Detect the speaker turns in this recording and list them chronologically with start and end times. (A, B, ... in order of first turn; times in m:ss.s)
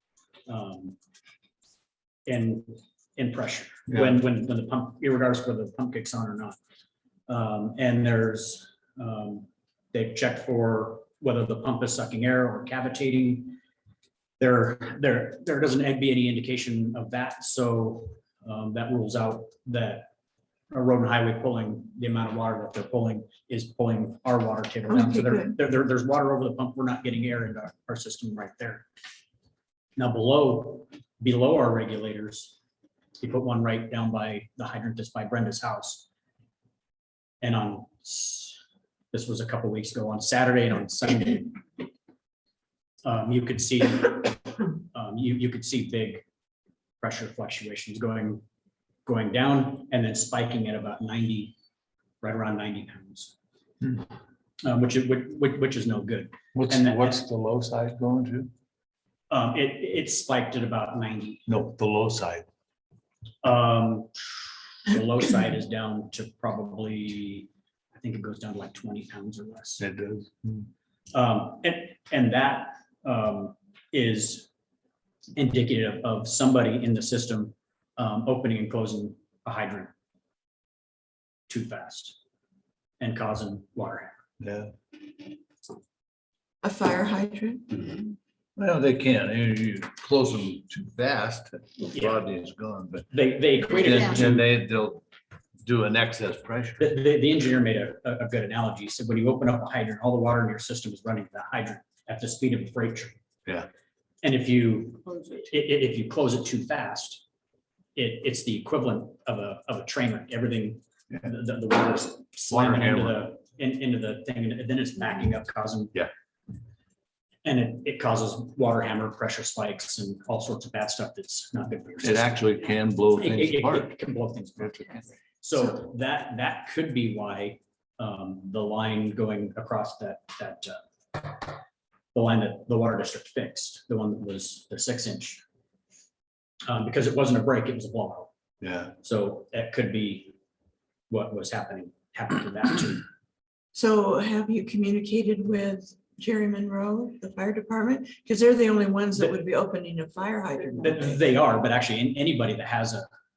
0:00.5-0:01.0 A
0:02.3-0:06.6 A
0:07.3-0:13.6 A
0:14.4-0:20.1 A
0:20.7-0:28.8 A
0:24.9-0:25.6 B
0:30.0-0:32.6 A
0:33.2-0:36.1 A
0:37.4-0:38.6 A
0:39.1-0:41.6 A
0:43.0-0:46.2 A
0:47.0-0:48.4 A
0:49.0-0:51.5 A
0:52.2-0:53.3 A
0:54.6-0:57.2 A
0:56.5-0:58.5 C
0:59.3-1:01.5 A
1:01.5-1:02.4 C
1:03.4-1:04.2 A
1:04.8-1:09.8 A
1:09.8-1:10.7 C
1:11.1-1:14.5 A
1:15.4-1:19.9 A
1:21.5-1:22.2 A
1:23.0-1:24.1 A
1:24.4-1:24.7 C
1:26.6-1:27.8 B
1:28.6-1:33.1 C
1:31.8-1:32.2 A
1:33.1-1:34.4 A
1:33.8-1:35.0 C
1:35.6-1:36.8 C
1:36.8-1:43.2 A
1:44.2-1:47.2 A
1:48.0-1:55.9 A
1:52.5-1:53.2 C
1:57.4-2:02.4 A
2:02.0-2:03.9 C
2:03.2-2:11.4 A
2:12.1-2:15.4 A
2:16.7-2:18.3 A
2:18.6-2:18.9 C
2:19.0-2:20.3 A
2:21.1-2:23.0 A
2:23.7-2:31.2 B
2:30.8-2:33.1 A